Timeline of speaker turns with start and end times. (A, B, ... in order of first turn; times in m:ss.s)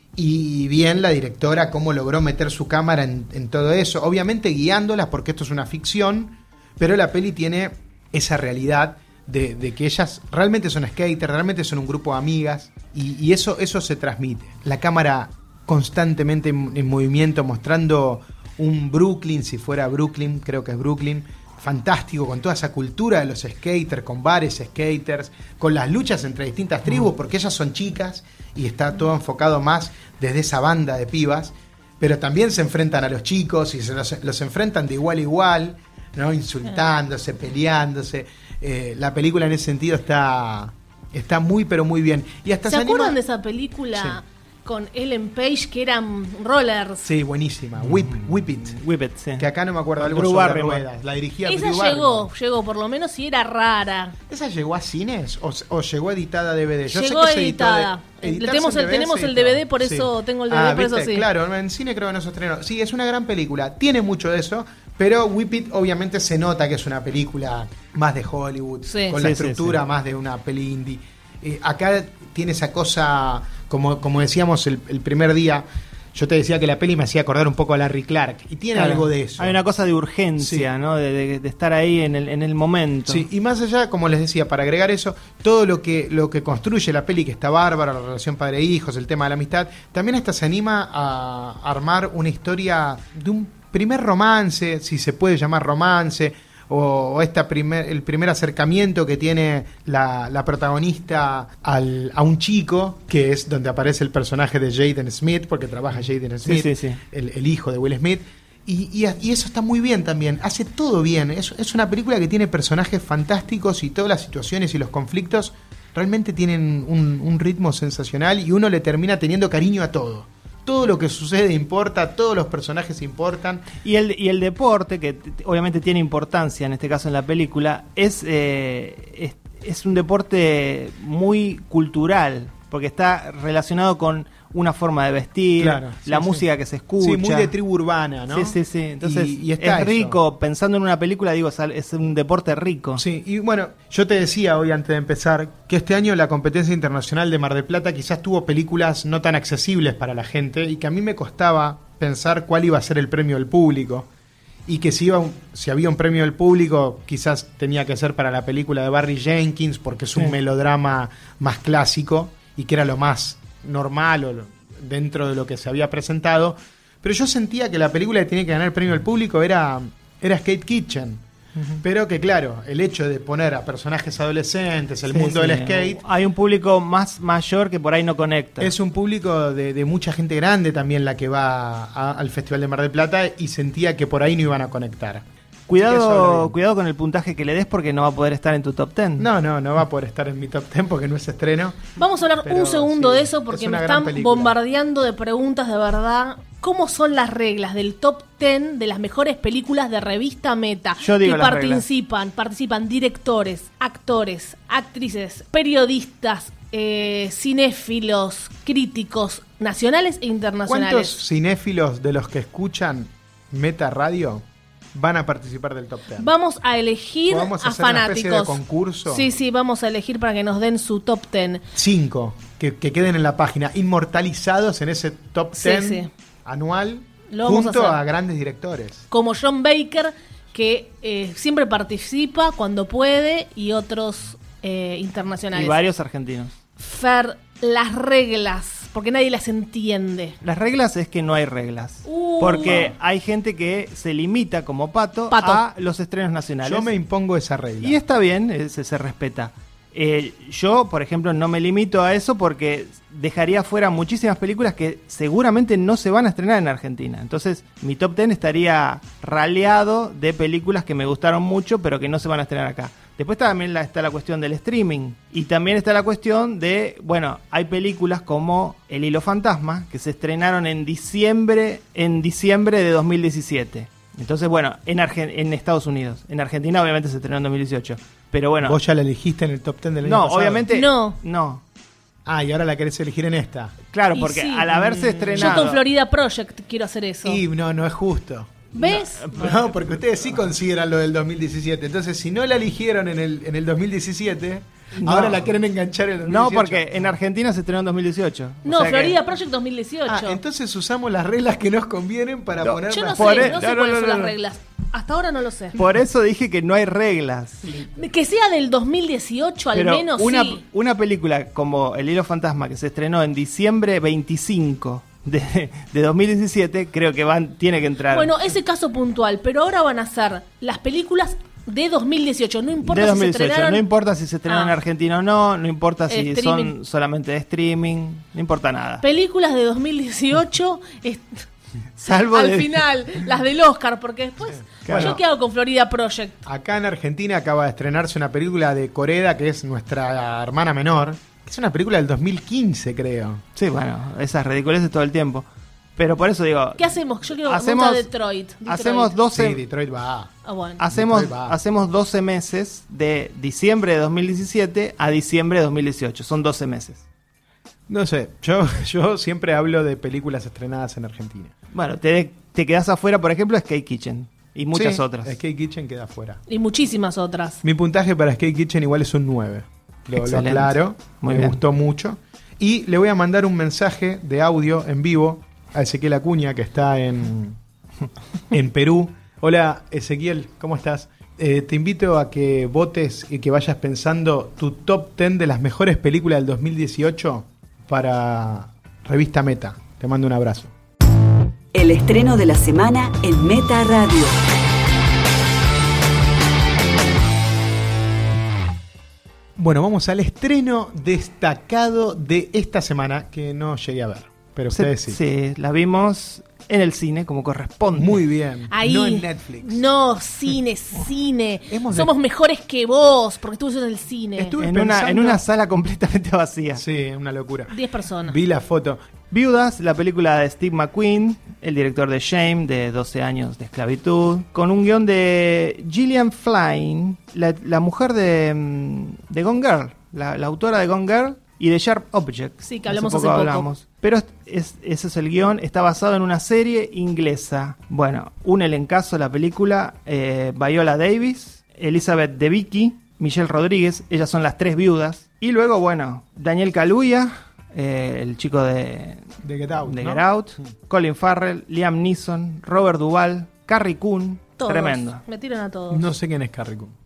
0:00.2-0:43.2 A
0:42.7-0:47.1 B
0:43.9-0:44.2 A
0:47.0-0:48.8 A
0:48.6-0:49.5 C
0:49.4-0:52.3 A
0:50.0-0:50.8 C
0:51.5-0:54.2 B
0:54.3-1:19.6 A
0:56.9-1:01.3 B
1:08.8-1:09.2 B
1:09.2-1:09.8 C
1:18.8-1:23.3 C
1:20.4-1:20.7 A
1:23.1-2:03.7 A
1:46.4-1:47.0 C
2:03.8-2:17.5 C
2:15.6-2:16.5 A
2:17.0-2:20.2 A
2:18.3-2:23.0 C
2:23.0-2:34.1 A
2:34.7-2:51.2 A
2:51.8-2:56.0 A
2:55.1-2:58.7 C
2:58.6-3:05.2 A
3:05.7-3:09.3 C
3:05.8-3:06.6 A
3:09.2-3:11.9 A
3:12.0-3:31.2 B
3:12.4-3:14.6 A
3:21.0-3:21.8 C
3:30.7-3:36.3 A
3:36.2-3:41.6 B
3:37.3-3:39.3 A
3:41.7-3:49.1 A
3:45.6-3:46.1 B
3:47.3-3:48.0 B
3:49.1-3:55.8 B
3:55.5-3:56.6 C
3:56.8-4:00.4 B
4:00.4-4:06.9 C
4:02.0-4:02.9 B
4:05.3-4:05.6 B
4:06.6-4:08.0 A
4:07.8-4:38.8 C
4:38.6-4:40.7 A
4:40.0-4:41.6 C
4:40.7-4:41.2 B
4:42.3-4:43.8 A
4:43.9-4:45.8 C
4:44.1-4:47.4 B
4:44.8-4:45.7 A
4:47.2-4:48.7 A
4:48.7-4:49.3 B
4:48.8-4:49.8 C
4:49.3-4:57.1 A
4:55.0-4:55.5 C
4:56.2-4:59.2 C
4:58.6-5:00.4 B
5:00.1-5:03.6 A
5:02.6-5:04.4 C
5:02.9-5:05.8 B
5:05.8-5:07.7 C
5:07.7-5:08.0 A
5:08.0-5:10.6 B
5:09.7-5:18.4 C
5:18.1-5:23.8 B
5:22.8-5:29.0 C
5:24.5-5:24.7 B
5:26.1-5:26.7 B
5:29.0-5:31.4 B
5:32.0-5:32.8 C
5:32.0-5:36.4 B
5:34.7-5:35.2 A
5:34.8-5:35.2 C
5:36.4-5:43.4 A
5:43.6-5:45.4 C
5:46.0-5:48.1 C
5:46.8-5:49.2 B
5:48.6-5:49.6 C
5:49.3-5:50.3 A
5:50.5-5:50.8 B
5:50.8-5:57.0 C
5:50.9-5:51.6 A
5:57.9-6:01.5 A
6:01.7-6:05.4 C
6:04.7-6:06.4 A
6:06.5-6:07.6 B
6:07.6-6:17.6 A
6:10.2-6:11.6 C
6:18.5-6:30.7 A
6:31.7-6:34.4 D
6:39.6-6:45.2 A
6:44.7-6:48.2 C
6:48.0-6:49.8 A
6:48.7-6:54.6 B
6:51.7-6:52.1 A
6:54.4-6:55.4 A
6:54.6-6:56.8 C
6:56.8-6:57.7 A
6:57.7-6:58.4 B
6:58.2-6:59.0 A
6:59.3-7:29.2 C
7:12.6-7:13.7 B
7:29.4-7:30.2 A
7:29.8-7:35.2 C
7:34.6-7:36.0 B
7:35.9-7:36.9 A